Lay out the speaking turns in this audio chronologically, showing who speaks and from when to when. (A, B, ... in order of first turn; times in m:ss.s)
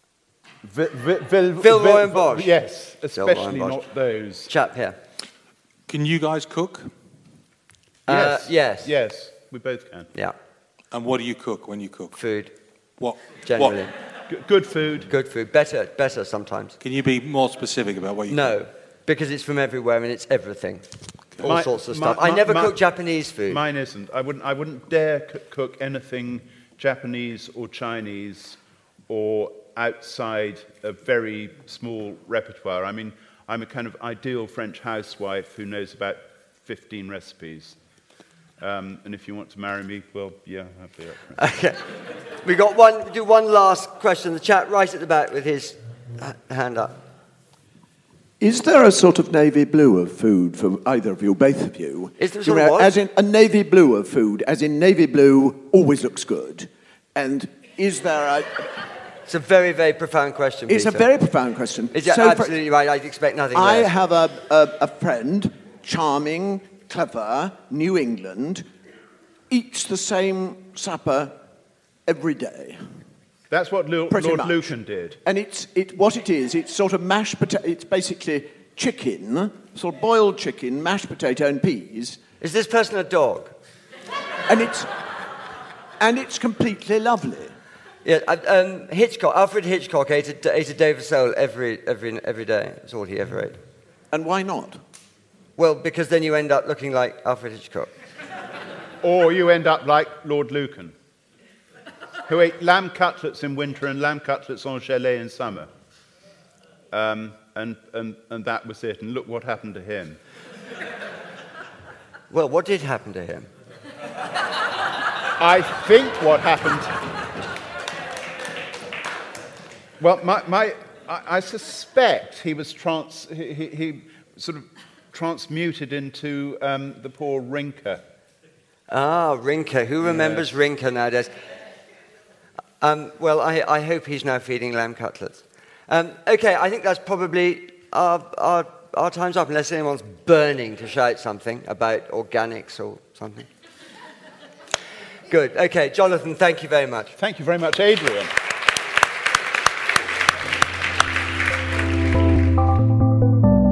0:00.6-0:04.5 A
0:01.6-0:02.5 B
0:03.1-0:03.8 B
0:04.5-0:05.0 B
0:05.9-0:06.9 C
0:08.1-0:08.9 B
0:08.1-0:10.1 A
0:10.9-0:12.2 C
0:12.2-0:12.5 B
0:13.0-0:13.9 C
0:13.4-0:13.9 B
0:14.3-0:15.1 A
0:15.1-0:16.8 B
0:16.8-0:18.6 C
0:18.3-0:20.9 B
0:21.4-0:23.6 B
0:21.4-0:22.9 A
0:23.4-0:37.8 A
0:38.6-0:41.4 A
0:41.4-0:47.0 B
0:48.4-0:58.8 D
0:52.2-0:52.9 B
0:59.3-1:01.1 B
1:00.7-1:02.6 D
1:01.9-1:03.9 B
1:03.5-1:08.7 D
1:09.5-1:11.4 D
1:12.1-1:12.9 D
1:13.5-1:15.2 A
1:14.1-1:14.7 D
1:15.2-1:22.2 D
1:22.4-1:23.6 B
1:24.5-1:25.1 D
1:26.0-1:27.6 D
1:28.0-1:33.6 B
1:34.1-1:34.8 D
1:35.6-1:37.9 B
1:39.0-1:41.0 A
1:42.3-1:45.7 A
1:46.9-1:50.2 A
1:52.3-1:53.5 B
1:55.3-1:57.2 A
2:00.0-2:08.0 A
2:08.9-2:11.3 B
2:10.0-2:10.5 A
2:12.8-2:23.5 B
2:25.3-2:27.2 B
2:27.2-2:28.4 A